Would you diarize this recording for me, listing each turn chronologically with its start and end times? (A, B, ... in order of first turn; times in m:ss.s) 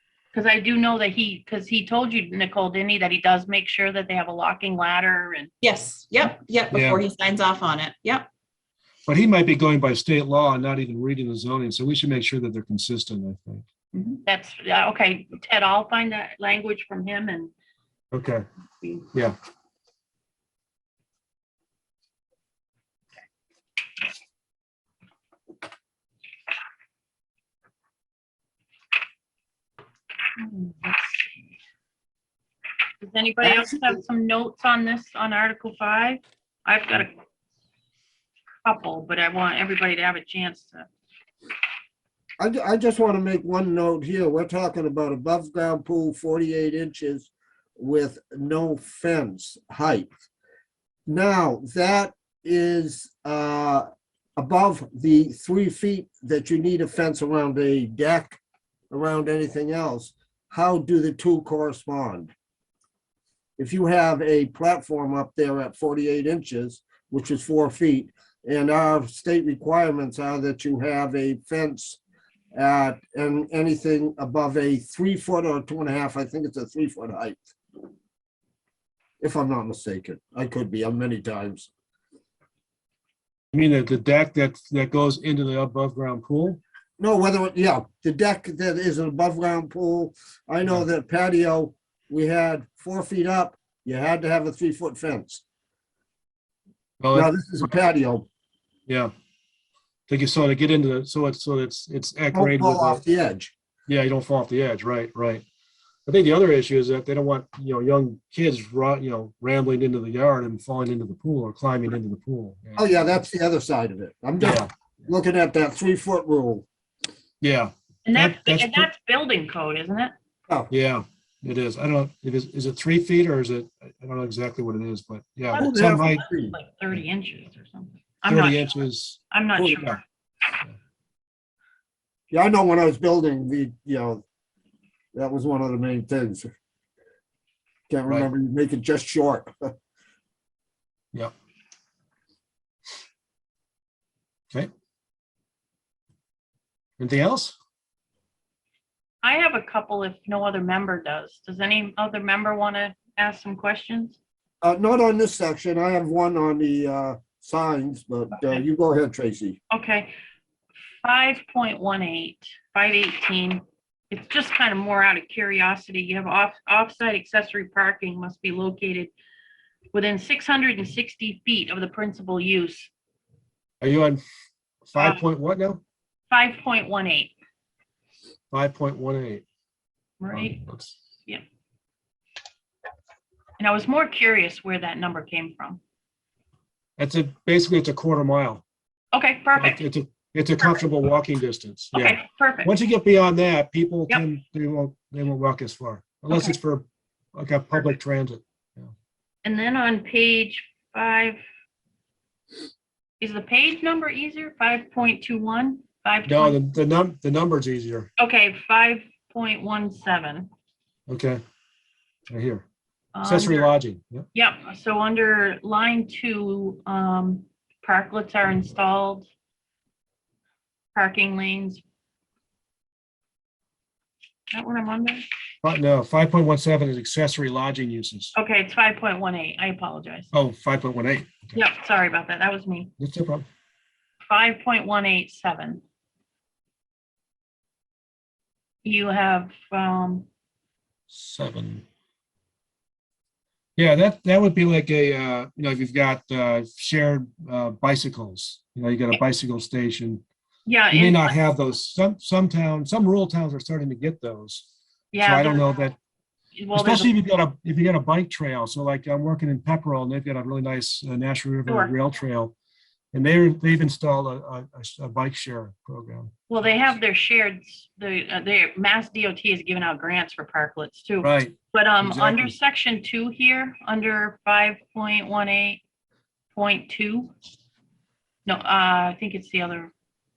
0:00.3-0:05.5 A
0:05.6-0:08.3 B
0:06.7-0:07.0 C
0:09.1-0:13.6 C
0:13.9-0:17.5 A
0:18.1-0:18.4 C
0:18.8-0:19.1 A
0:30.4-0:31.3 A
0:33.0-0:37.2 A
0:33.4-0:34.0 D
0:38.6-0:40.9 A
0:42.4-0:50.1 D
0:51.1-0:53.9 D
0:54.4-0:58.4 D
0:58.9-1:02.3 D
1:03.6-1:12.0 D
1:12.5-1:17.5 D
1:19.2-1:21.7 D
1:23.5-1:26.6 C
1:27.0-1:35.4 D
1:37.0-1:37.3 C
1:37.1-1:38.3 D
1:40.1-1:43.0 C
1:42.3-1:43.5 D
1:43.9-1:45.4 C
1:46.1-1:52.8 C
1:52.8-1:56.7 D
1:54.4-1:54.7 C
1:57.4-1:58.9 C
1:58.1-2:00.1 A
2:00.7-2:06.2 C
2:05.5-2:06.6 D
2:05.5-2:08.8 A
2:08.3-2:10.0 C
2:09.3-2:10.0 A
2:12.3-2:14.2 D
2:15.1-2:16.5 D
2:17.9-2:19.5 D
2:27.0-2:27.6 C
2:29.2-2:34.2 A
2:34.6-2:39.6 D
2:39.7-2:40.1 A
2:41.0-2:49.1 A
2:49.9-2:52.9 A
2:53.8-2:54.2 C
2:54.9-2:55.8 C
2:55.0-2:55.2 A
2:56.3-2:57.3 A
2:58.5-2:59.4 C
3:00.2-3:00.6 A
3:00.3-3:01.0 C
3:03.6-3:05.8 A
3:07.0-3:08.6 C
3:09.1-3:09.8 A
3:09.6-3:18.9 C
3:11.9-3:12.7 A
3:16.3-3:16.6 A
3:19.4-3:21.4 A
3:23.2-3:26.6 A
3:26.3-3:28.1 C
3:28.2-3:30.5 A
3:31.1-3:31.4 C
3:32.3-3:32.6 C
3:33.1-3:33.7 A
3:33.2-3:34.3 C
3:34.3-3:39.3 A
3:41.0-3:41.8 A
3:44.5-3:45.2 A
3:45.6-3:48.3 C
3:48.4-3:50.3 A
3:50.3-3:51.6 C
3:51.6-3:52.9 A
3:53.0-3:53.5 C
3:54.3-3:55.8 A
3:58.8-4:00.3 A
4:01.1-4:01.8 C
4:03.8-4:10.2 C
4:10.7-4:11.4 A
4:10.9-4:14.7 C
4:15.1-4:15.7 A
4:15.2-4:16.0 C
4:16.6-4:17.1 A
4:16.8-4:22.5 C
4:21.7-4:21.9 A
4:23.1-4:26.7 C
4:26.5-4:35.8 A
4:31.2-4:32.5 C
4:36.5-4:37.3 A
4:38.5-4:39.9 A